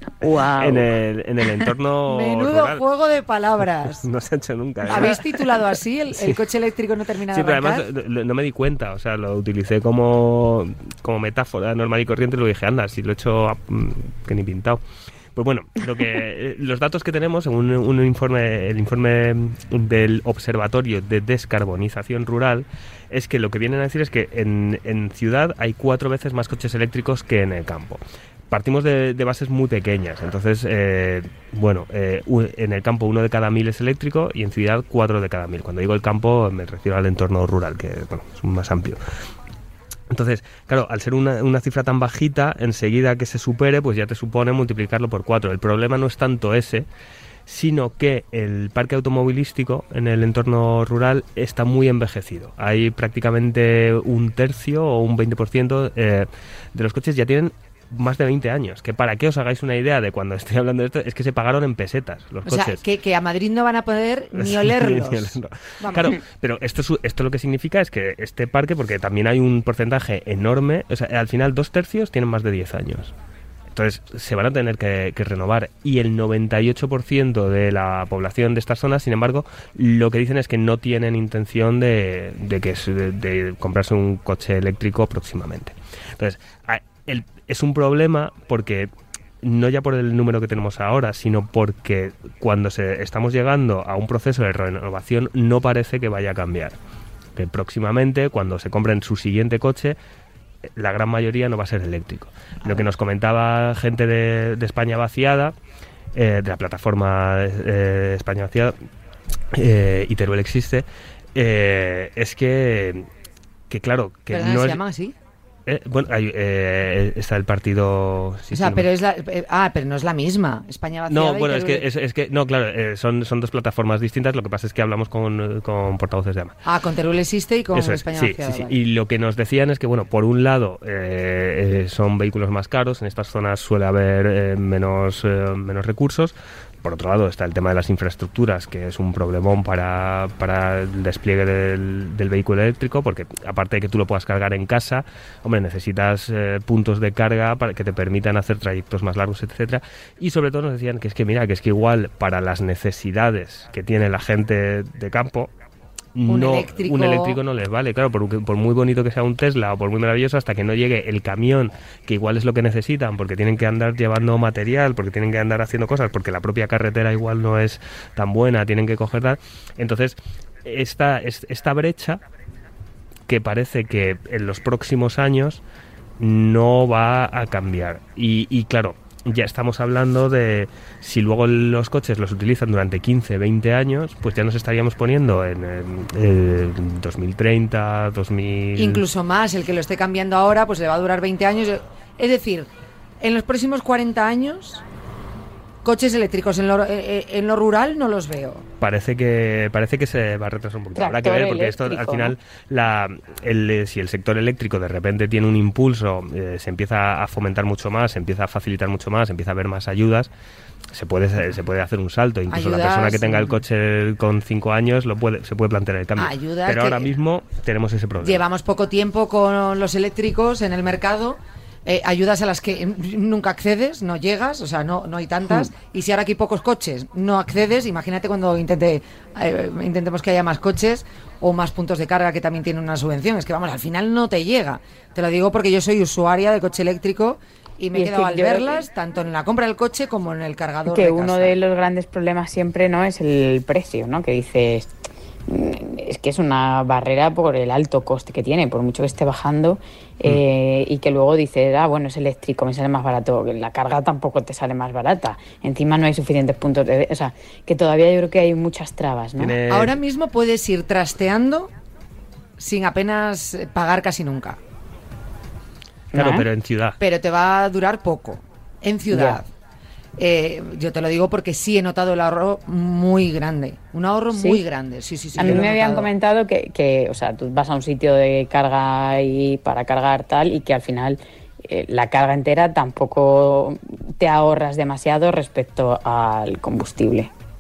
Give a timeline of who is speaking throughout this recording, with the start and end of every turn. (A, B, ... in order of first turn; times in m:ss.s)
0:00.2-0:00.9 A
0:00.3-0:02.8 B
0:02.1-0:04.1 C
0:04.0-0:05.6 B
0:04.9-0:07.9 C
0:06.1-0:06.4 B
0:07.3-0:14.8 B
0:15.4-0:39.0 B
0:40.1-0:46.8 B
0:47.5-1:02.8 B
1:02.4-1:06.2 C
1:04.4-1:13.1 B
1:13.7-1:28.9 B
1:29.4-1:36.8 B
1:37.4-1:40.0 B
1:40.6-1:45.6 B
1:46.1-1:48.8 B
1:49.5-1:53.1 B
1:53.7-1:54.8 B
1:54.3-1:55.1 C
1:55.6-1:58.9 B
1:58.5-2:01.9 C
2:01.1-2:06.6 B
2:06.6-2:08.8 C
2:07.7-2:35.5 B
2:36.1-2:52.2 B
2:36.2-2:37.4 C
2:53.3-2:55.6 B
2:56.2-3:09.0 B
3:08.8-3:12.7 C
3:13.2-3:14.8 C
3:15.8-3:18.7 C
3:18.8-3:30.3 B
3:21.0-3:22.4 A
3:30.9-3:38.4 B
3:32.5-3:33.6 C
3:36.2-3:37.1 C
3:38.2-4:01.6 C
3:57.9-3:58.9 A
4:00.9-4:04.9 A
4:05.5-4:19.6 A
4:19.4-4:20.0 B
4:19.7-4:21.7 C
4:22.6-4:24.6 C
4:26.1-4:26.5 A
4:26.1-4:27.0 B
4:27.0-4:29.5 C
4:29.1-4:29.4 A
4:30.2-4:36.1 C
4:34.3-4:34.6 A
4:35.4-4:47.3 A